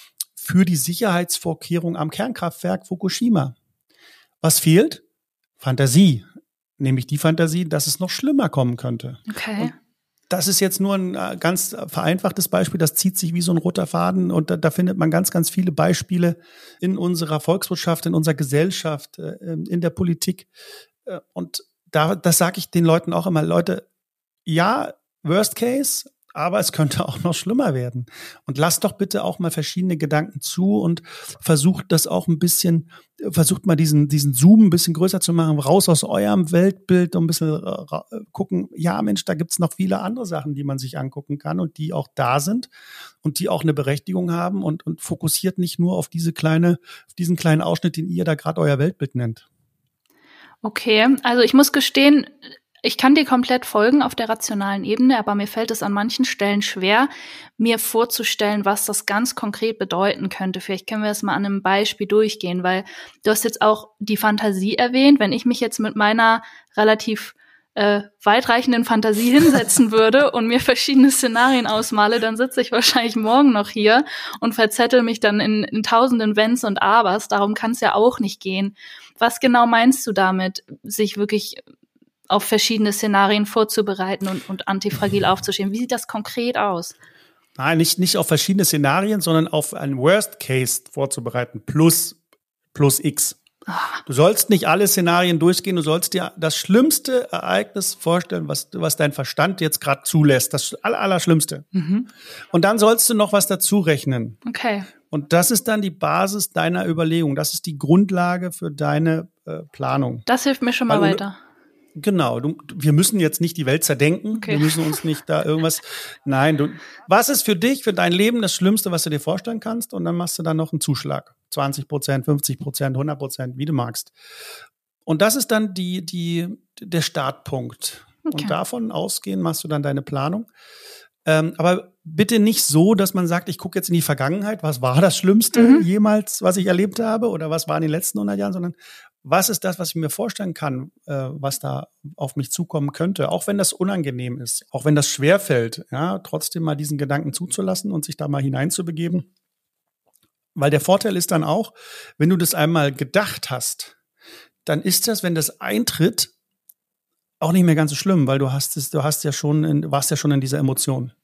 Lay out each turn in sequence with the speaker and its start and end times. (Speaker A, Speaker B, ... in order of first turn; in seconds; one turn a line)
Speaker A: 0.4-3.5
Speaker A: 4.4-5.0
Speaker A: 5.6-6.2
Speaker A: 6.8-9.7
Speaker B: 9.3-9.7
Speaker A: 10.3-20.5
Speaker A: 21.1-23.8
Speaker A: 24.4-42.7
Speaker A: 43.2-49.4
Speaker B: 50.6-81.6
Speaker B: 82.3-87.0
Speaker A: 87.6-92.2
Speaker A: 92.7-93.4
Speaker B: 93.7-94.0
Speaker A: 94.0-101.7
Speaker B: 101.7-102.1
Speaker A: 102.5-104.4
Speaker B: 104.4-104.9
Speaker A: 105.1-110.2
Speaker B: 110.3-111.4
Speaker A: 110.9-111.2
Speaker A: 112.0-124.1
Speaker B: 114.3-114.8
Speaker A: 125.0-130.5
Speaker B: 128.2-128.5
Speaker A: 131.2-149.3
Speaker B: 135.5-135.9
Speaker A: 150.6-153.9
Speaker A: 154.7-156.3
Speaker A: 157.4-161.1